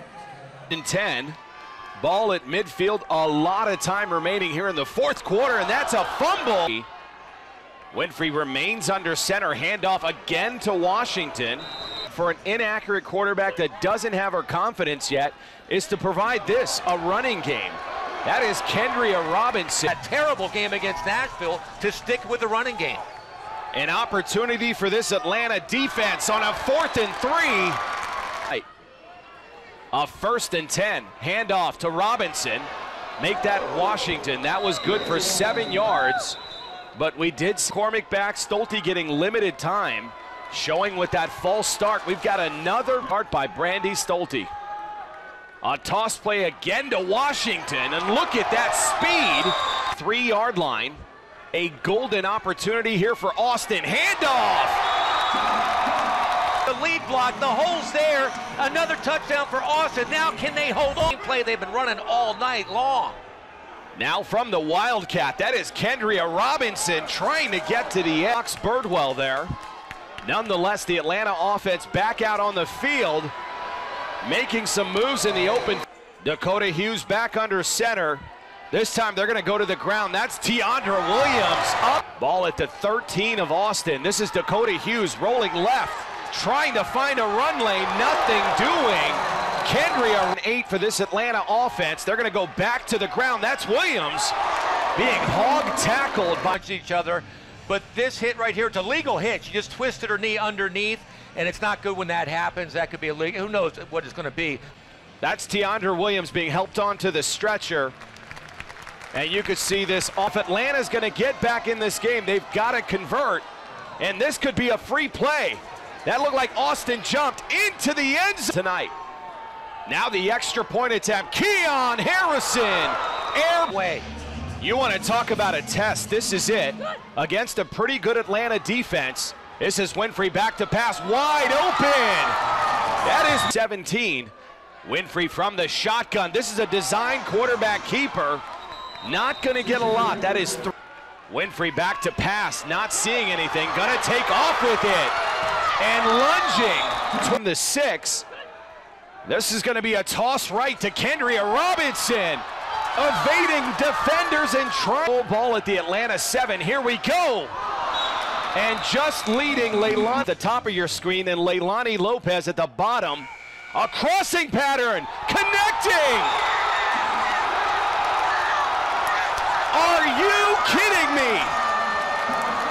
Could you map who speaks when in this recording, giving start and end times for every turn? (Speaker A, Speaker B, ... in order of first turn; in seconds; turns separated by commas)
Speaker A: 0.7-1.4, Speaker A: 2.0-6.9, Speaker A: 7.9-19.9, Speaker B: 19.9-23.0, Speaker A: 23.7-27.8, Speaker A: 29.9-36.4, Speaker A: 36.9-44.5, Speaker A: 45.6-51.0, Speaker A: 51.5-54.8, Speaker B: 56.6-63.2, Speaker A: 63.9-69.5, Speaker A: 70.2-73.3, Speaker A: 74.2-94.3, Speaker A: 94.9-96.6, Speaker B: 96.5-104.6, Speaker A: 105.2-107.9, Speaker A: 109.1-113.5, Speaker A: 114.0-118.9, Speaker A: 119.8-123.8, Speaker B: 123.7-124.0, Speaker A: 124.6-132.3, Speaker A: 133.0-134.3, Speaker A: 134.8-138.4, Speaker A: 139.0-140.7, Speaker A: 141.3-145.1, Speaker A: 145.8-148.2, Speaker A: 149.2-152.4, Speaker A: 152.9-157.5, Speaker A: 158.5-166.3, Speaker A: 169.7-171.5